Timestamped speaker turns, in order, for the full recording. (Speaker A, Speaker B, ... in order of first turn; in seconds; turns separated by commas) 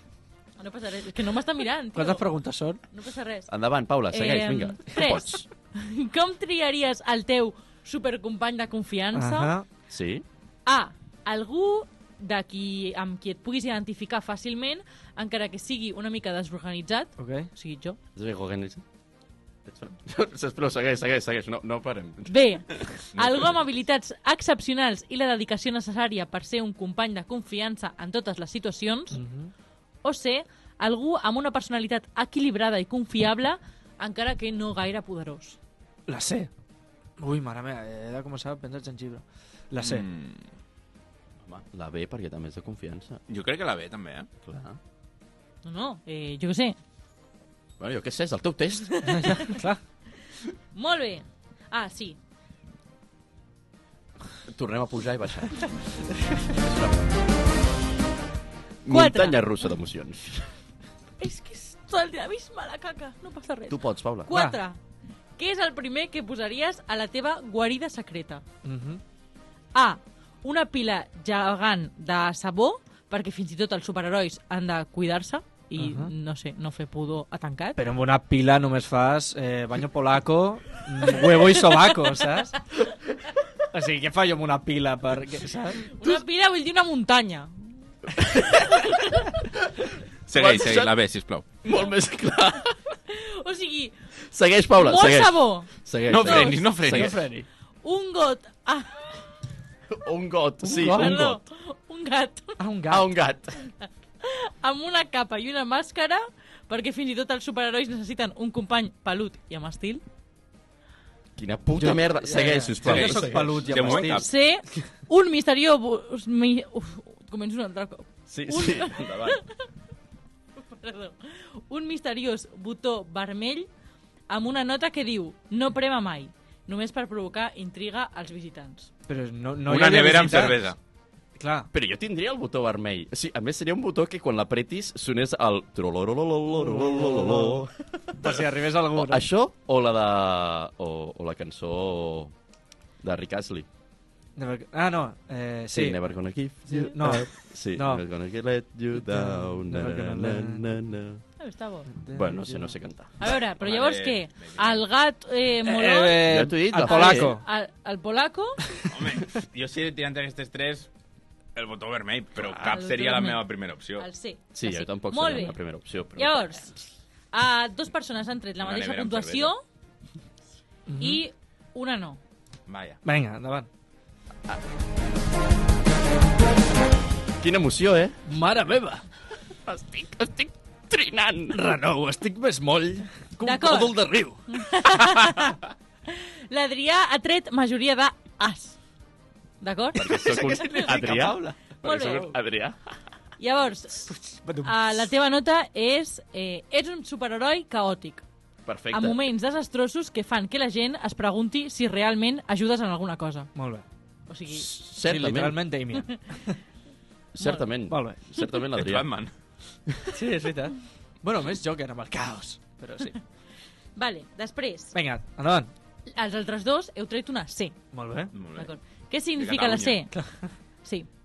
Speaker A: 0.6-2.2, Speaker B: 1.9-2.8, Speaker A: 2.9-3.5, Speaker C: 3.5-5.4, Speaker A: 4.1-9.5, Speaker B: 9.1-9.7, Speaker C: 9.9-10.2, Speaker A: 10.7-18.0, Speaker B: 17.2-17.5, Speaker C: 18.1-18.8, Speaker C: 19.7-22.3, Speaker A: 22.3-29.2, Speaker D: 23.1-23.6, Speaker B: 29.1-29.5, Speaker A: 30.0-35.6, Speaker B: 36.1-36.5, Speaker B: 37.2-40.0, Speaker D: 39.8-40.5, Speaker C: 41.4-43.2, Speaker D: 43.3-44.3, Speaker C: 44.4-44.8, Speaker A: 45.6-46.8, Speaker C: 47.8-49.0, Speaker A: 48.9-49.6, Speaker B: 49.0-49.8, Speaker A: 50.7-52.2, Speaker C: 54.5-55.7, Speaker C: 56.5-57.0, Speaker C: 58.8-60.5, Speaker A: 58.9-59.4, Speaker A: 61.2-64.8, Speaker C: 63.7-64.3, Speaker B: 64.3-64.6, Speaker A: 65.3-68.4, Speaker B: 68.6-69.0, Speaker A: 69.7-77.8, Speaker B: 75.8-76.1, Speaker B: 77.8-82.6, Speaker B: 83.7-85.9, Speaker A: 85.8-89.3, Speaker C: 88.2-88.8, Speaker D: 90.3-91.5, Speaker C: 90.3-90.9, Speaker C: 91.6-92.8, Speaker A: 93.1-93.9, Speaker C: 94.3-97.3, Speaker A: 94.7-96.7, Speaker D: 96.1-97.2, Speaker B: 96.8-97.5, Speaker A: 97.8-99.1, Speaker C: 99.9-101.4, Speaker B: 100.6-101.4, Speaker A: 100.8-102.6, Speaker B: 102.6-103.1, Speaker C: 102.9-103.6, Speaker A: 103.6-110.0, Speaker C: 111.4-113.9, Speaker B: 111.8-114.3, Speaker D: 112.8-114.3, Speaker A: 114.0-119.6, Speaker C: 118.3-119.4, Speaker A: 120.6-123.7, Speaker A: 124.3-128.9, Speaker B: 129.1-130.7, Speaker D: 129.7-130.8, Speaker B: 131.4-131.7, Speaker C: 131.7-138.3, Speaker B: 136.5-139.2, Speaker C: 138.9-142.3, Speaker C: 143.0-143.7, Speaker B: 144.3-146.0, Speaker C: 145.7-151.2, Speaker B: 146.7-148.0, Speaker B: 148.9-150.8, Speaker A: 151.4-151.9, Speaker B: 151.9-152.7, Speaker C: 152.1-153.3, Speaker A: 153.2-158.7, Speaker D: 153.3-154.8, Speaker B: 155.6-157.4, Speaker C: 156.2-157.3, Speaker D: 158.9-160.9, Speaker D: 161.6-164.1, Speaker A: 162.4-163.4, Speaker A: 164.0-165.6, Speaker C: 164.5-166.6, Speaker A: 166.2-166.8, Speaker A: 167.3-169.6, Speaker D: 168.6-169.5, Speaker B: 170.9-171.2, Speaker A: 171.0-172.2, Speaker D: 172.7-173.0, Speaker B: 173.0-173.7, Speaker C: 177.4-178.2, Speaker B: 178.2-179.0, Speaker C: 179.7-181.6, Speaker B: 181.5-184.6, Speaker A: 183.4-184.0, Speaker A: 184.5-188.8, Speaker A: 189.6-190.9, Speaker C: 189.9-192.9, Speaker B: 190.0-191.7, Speaker A: 191.8-192.3, Speaker A: 193.4-198.2, Speaker B: 194.1-195.1, Speaker C: 198.7-199.2, Speaker A: 198.9-203.5, Speaker B: 203.5-203.8, Speaker A: 204.3-204.7, Speaker C: 204.5-205.6, Speaker B: 205.0-206.6, Speaker C: 207.3-209.1, Speaker B: 207.9-208.2, Speaker D: 208.7-209.3, Speaker B: 210.1-213.2, Speaker A: 213.9-214.9, Speaker B: 214.9-215.7, Speaker A: 216.1-217.8, Speaker B: 217.9-218.3, Speaker D: 218.3-218.7, Speaker A: 218.6-220.2, Speaker D: 219.3-220.0, Speaker B: 220.1-220.5, Speaker A: 220.8-221.1